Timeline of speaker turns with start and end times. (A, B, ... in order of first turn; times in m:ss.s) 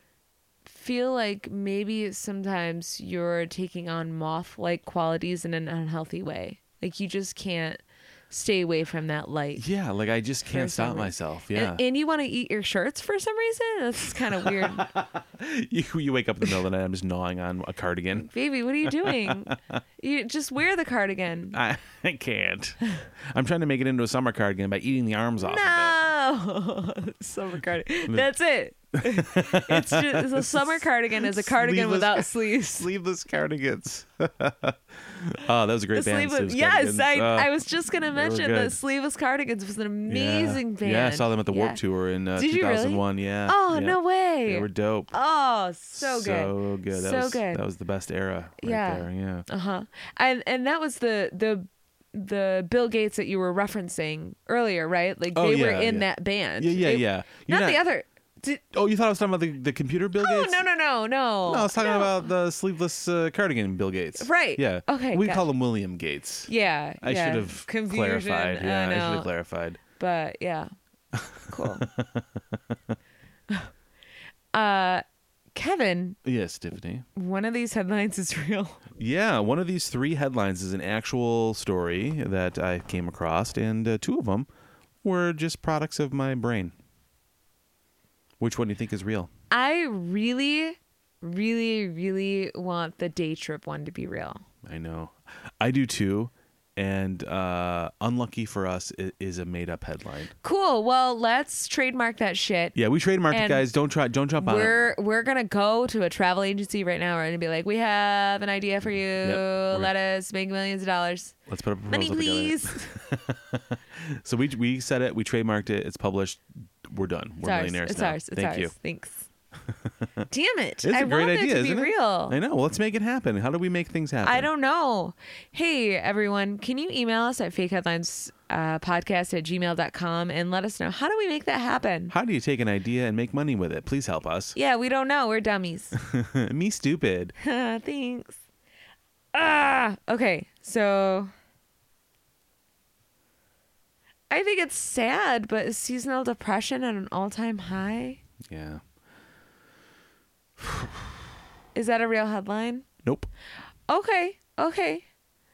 0:00.6-0:09.6 A
0:09.6-0:11.8 B
0:10.5-0:14.9 A
0:14.1-0:18.3 B
0:18.2-0:21.6 A
0:18.8-0:19.8 B
0:21.5-0:26.0 B
0:25.4-0:32.9 A
0:29.0-0:38.8 B
0:35.9-0:41.8 A
0:40.1-0:45.1 B
0:42.3-0:47.6 A
0:45.9-0:49.5 B
0:48.6-0:58.6 A
0:55.3-0:57.8 B
0:58.7-1:00.6 B
1:00.2-1:02.3 A
1:01.4-1:06.5 B
1:04.2-1:05.5 A
1:06.5-1:09.3 A
1:07.0-1:09.8 B
1:10.0-1:10.7 A
1:11.1-1:13.0 B
1:11.5-1:11.8 A
1:14.5-1:15.0 A
1:15.5-1:16.2 A
1:16.2-1:17.0 B
1:17.1-1:18.8 A
1:19.0-1:24.5 B
1:25.0-1:26.7 B
1:28.4-1:29.3 B
1:29.5-1:34.4 A
1:34.6-1:40.3 B
1:40.4-1:42.8 A
1:42.7-1:44.8 B
1:43.3-1:43.6 A
1:44.4-1:51.3 A
1:49.2-1:49.9 B
1:51.5-1:58.7 B
1:51.9-1:52.9 A
1:57.4-1:59.2 A
1:59.7-2:00.2 B
2:00.3-2:02.4 A
2:00.8-2:04.5 B
2:04.2-2:12.1 A
2:12.1-2:14.6 B
2:14.5-2:16.0 A
2:15.9-2:17.3 B
2:17.4-2:18.4 A
2:19.3-2:21.3 A
2:24.3-2:28.2 A
2:28.4-2:28.8 B
2:30.6-2:31.2 B
2:31.7-2:32.8 A
2:33.0-2:33.3 B
2:33.9-2:35.0 A